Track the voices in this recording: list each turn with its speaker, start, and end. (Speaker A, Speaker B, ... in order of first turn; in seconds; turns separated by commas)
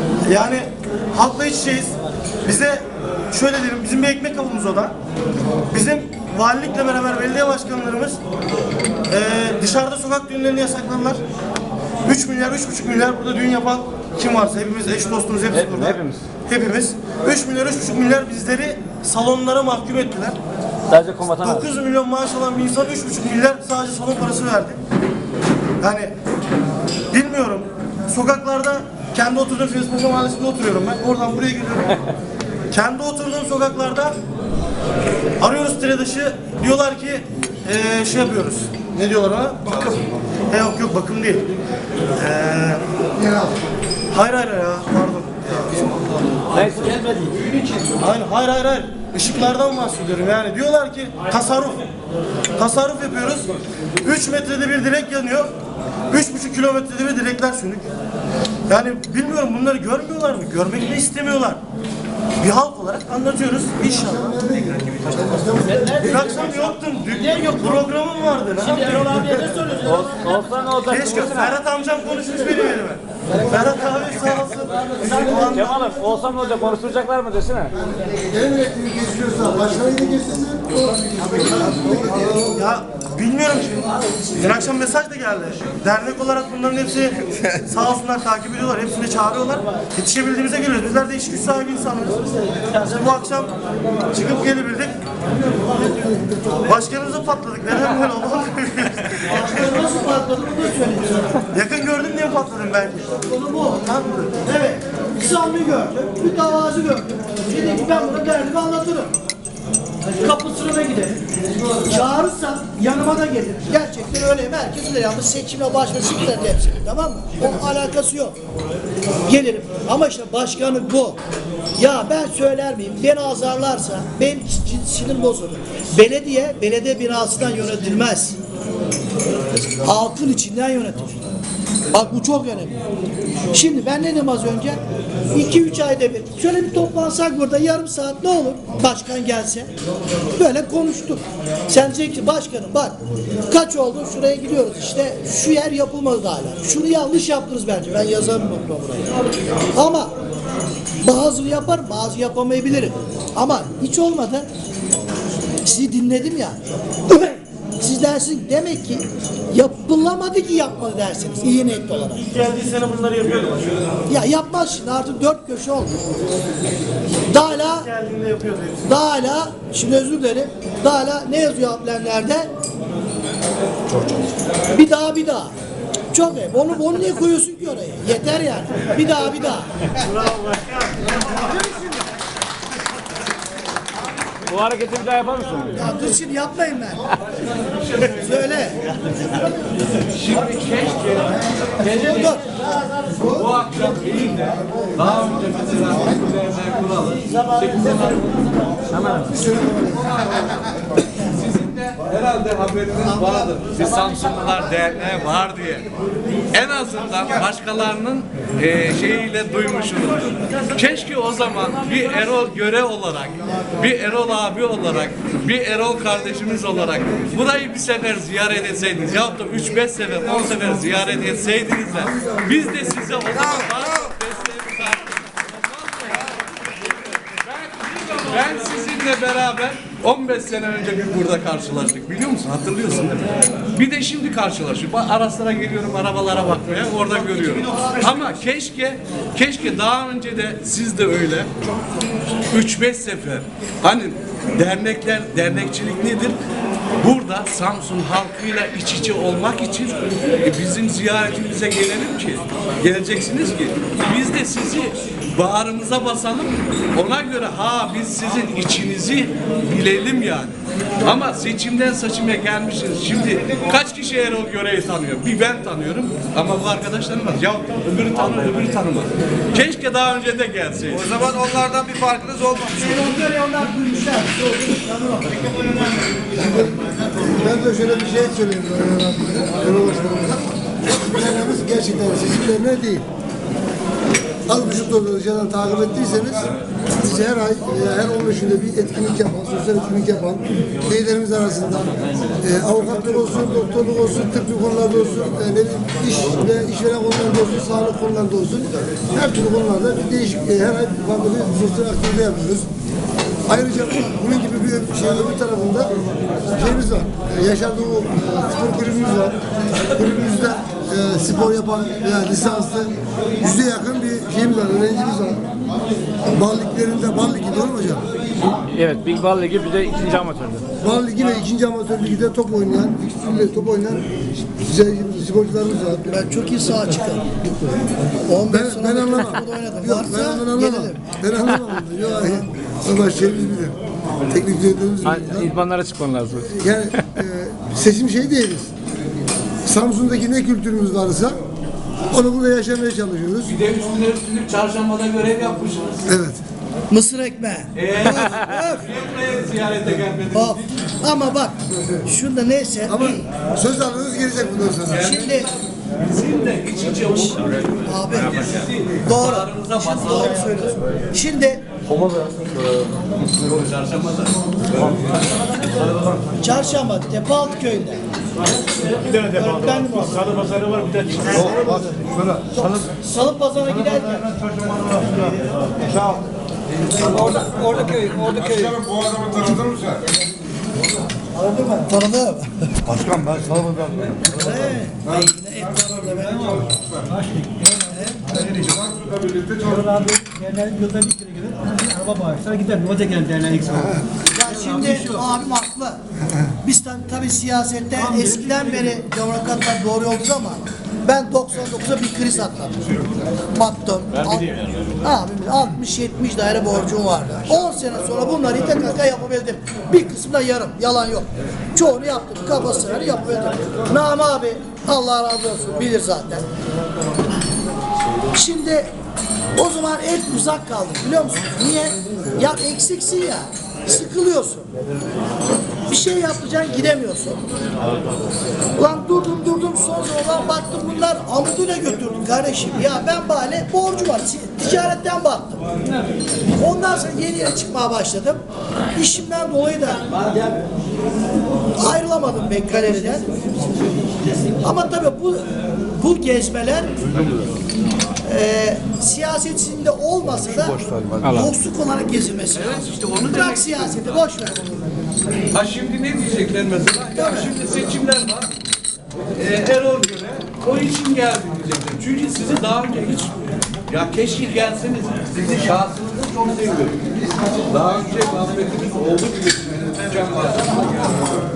Speaker A: 0.2-4.9, Speaker A: 5.7-8.2, Speaker A: 9.1-11.2, Speaker A: 12.1-20.4, Speaker B: 15.5-16.2, Speaker B: 20.9-21.7, Speaker A: 21.4-24.8, Speaker A: 25.8-26.1, Speaker A: 27.1-32.1, Speaker A: 32.7-34.2, Speaker A: 35.4-41.5, Speaker A: 42.1-42.8, Speaker C: 43.2-43.5, Speaker A: 44.1-45.9, Speaker B: 46.5-47.1, Speaker A: 47.9-51.8, Speaker A: 52.5-55.5, Speaker A: 56.1-57.9, Speaker A: 58.7-61.6, Speaker A: 62.4-64.4, Speaker C: 63.9-66.5, Speaker D: 65.7-66.2, Speaker A: 66.0-69.2, Speaker D: 67.3-67.7, Speaker D: 68.6-70.7, Speaker B: 69.8-71.6, Speaker A: 70.8-76.0, Speaker C: 75.0-75.7, Speaker B: 75.0-77.7, Speaker C: 77.8-82.6, Speaker A: 82.4-93.5, Speaker A: 94.1-95.0, Speaker A: 96.5-99.6, Speaker D: 99.2-101.4, Speaker A: 101.5-103.2, Speaker D: 103.2-109.1, Speaker A: 103.8-104.3, Speaker D: 110.0-111.2, Speaker D: 111.8-118.4, Speaker D: 119.2-121.2, Speaker D: 121.8-128.4, Speaker D: 129.7-131.4, Speaker D: 131.9-132.8, Speaker D: 133.5-134.8, Speaker D: 135.3-139.7, Speaker D: 140.3-149.1, Speaker D: 149.7-150.1, Speaker D: 151.0-154.5, Speaker D: 155.6-162.3, Speaker A: 162.2-163.8, Speaker D: 164.1-165.9, Speaker D: 167.3-167.9, Speaker A: 167.5-168.9, Speaker D: 168.8-172.5, Speaker D: 174.7-175.5, Speaker D: 176.1-179.7, Speaker D: 181.2-182.0, Speaker B: 184.5-185.8, Speaker D: 185.8-187.1, Speaker E: 187.2-188.7, Speaker D: 188.1-188.8, Speaker E: 190.1-198.3, Speaker D: 192.0-192.4, Speaker B: 198.9-199.3, Speaker C: 199.3-200.3, Speaker E: 199.9-205.9, Speaker E: 206.5-226.3, Speaker C: 222.1-222.6, Speaker E: 227.6-241.5, Speaker A: 237.2-238.4, Speaker D: 237.3-238.2, Speaker E: 242.5-246.4, Speaker E: 247.0-271.2, Speaker F: 271.2-272.6, Speaker D: 272.7-275.9, Speaker C: 276.3-283.1, Speaker C: 284.5-302.7, Speaker C: 303.5-305.9, Speaker C: 306.5-315.5, Speaker C: 316.3-318.1, Speaker B: 318.7-320.6, Speaker C: 320.8-326.2, Speaker D: 326.1-327.3, Speaker D: 328.3-331.0, Speaker C: 328.5-333.8, Speaker C: 334.3-335.5, Speaker B: 335.1-336.6, Speaker C: 336.4-341.4, Speaker C: 342.1-343.6, Speaker E: 343.4-346.1, Speaker C: 346.1-346.4, Speaker D: 346.9-348.9, Speaker E: 347.8-350.6, Speaker D: 350.3-353.2, Speaker C: 352.9-355.1, Speaker E: 354.9-360.8, Speaker D: 355.0-355.5, Speaker D: 357.9-361.6, Speaker E: 363.2-365.2, Speaker D: 366.4-368.0, Speaker D: 369.0-371.9, Speaker C: 371.3-372.4, Speaker D: 372.5-375.0, Speaker B: 377.1-378.8, Speaker G: 377.4-378.5, Speaker F: 378.4-379.4, Speaker C: 379.7-379.9, Speaker D: 381.3-382.7, Speaker C: 382.9-384.2, Speaker D: 384.3-386.7, Speaker G: 387.1-388.8, Speaker D: 387.9-388.3, Speaker F: 388.8-389.5, Speaker G: 389.6-394.0, Speaker D: 394.2-396.0, Speaker D: 396.6-416.4, Speaker G: 398.1-398.6, Speaker E: 404.2-404.7, Speaker D: 418.3-418.9, Speaker D: 419.5-424.7, Speaker D: 425.9-427.4, Speaker D: 428.8-435.6, Speaker D: 436.6-438.4, Speaker D: 438.9-440.1, Speaker D: 441.8-443.3, Speaker D: 444.6-446.9, Speaker D: 448.2-454.8, Speaker B: 451.2-451.5, Speaker E: 452.5-454.2, Speaker E: 455.5-458.5, Speaker D: 457.1-457.5, Speaker E: 459.4-463.3, Speaker E: 463.9-471.3